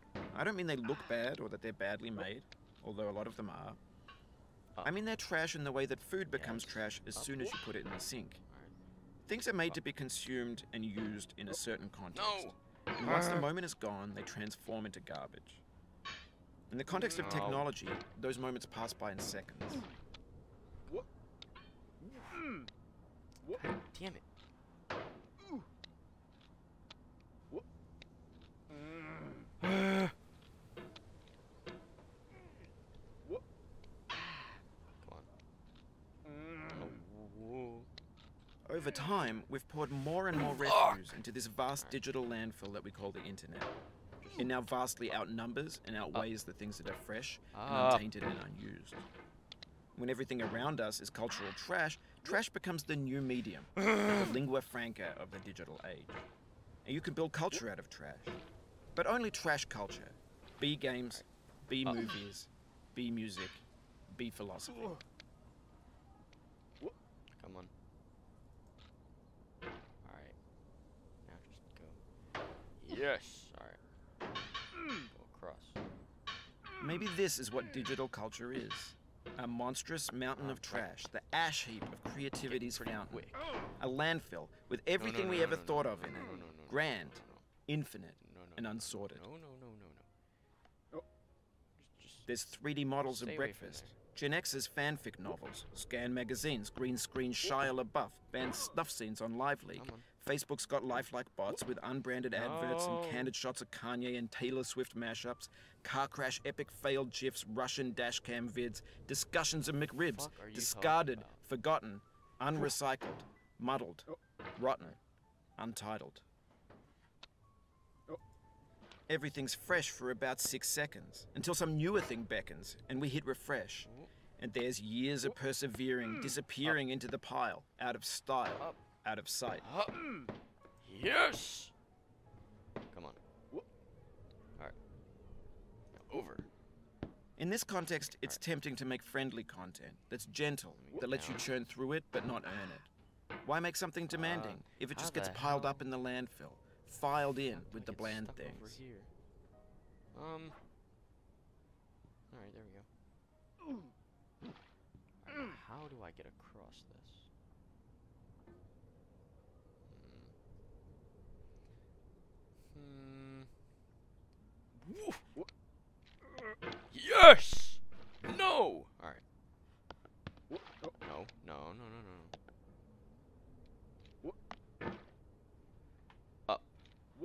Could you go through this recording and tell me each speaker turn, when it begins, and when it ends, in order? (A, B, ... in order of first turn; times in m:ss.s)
0:00.3-0:03.8 A
0:04.8-0:08.4 A
0:06.3-0:07.3 B
0:08.5-0:08.7 B
0:09.3-0:15.6 A
0:12.1-0:13.5 B
0:16.7-0:19.9 A
0:17.1-0:17.7 B
0:23.5-0:24.2 B
0:29.6-0:30.1 B
0:35.0-0:35.3 B
0:36.7-0:37.9 B
0:38.7-0:43.7 A
0:40.4-0:41.1 B
0:44.2-0:44.5 B
0:44.4-0:49.0 A
0:47.5-0:48.1 B
0:50.0-0:56.2 A
0:53.8-0:54.3 B
0:56.8-0:58.4 A
0:58.9-1:05.0 A
1:01.8-1:02.2 B
1:07.4-1:07.7 B
1:10.0-1:10.4 B
1:11.2-1:12.0 B
1:12.8-1:13.8 B
1:15.1-1:15.8 B
1:16.8-1:29.2 A
1:20.4-1:21.1 B
1:22.4-1:23.5 B
1:25.0-1:27.5 B
1:28.2-1:30.1 B
1:31.8-1:32.3 B
1:32.3-1:55.0 A
1:33.0-1:33.9 B
1:39.7-1:40.1 B
1:42.4-1:43.3 B
1:50.0-1:51.4 B
1:55.6-1:56.2 A
1:59.1-2:09.7 A
2:03.8-2:04.1 B
2:09.6-2:10.0 B
2:10.8-2:11.7 B
2:12.9-2:13.2 B
2:16.1-2:16.5 B
2:17.4-2:22.9 A
2:20.8-2:21.5 B
2:23.4-2:28.8 A
2:24.1-2:25.8 B
2:27.5-2:29.1 B
2:30.1-2:30.6 B
2:32.3-2:32.9 B
2:35.2-2:37.3 B
2:39.9-2:40.3 B
2:42.7-2:43.5 B
2:44.8-2:45.2 B
2:46.9-2:49.2 B
2:51.0-2:52.3 B
2:56.5-2:56.7 B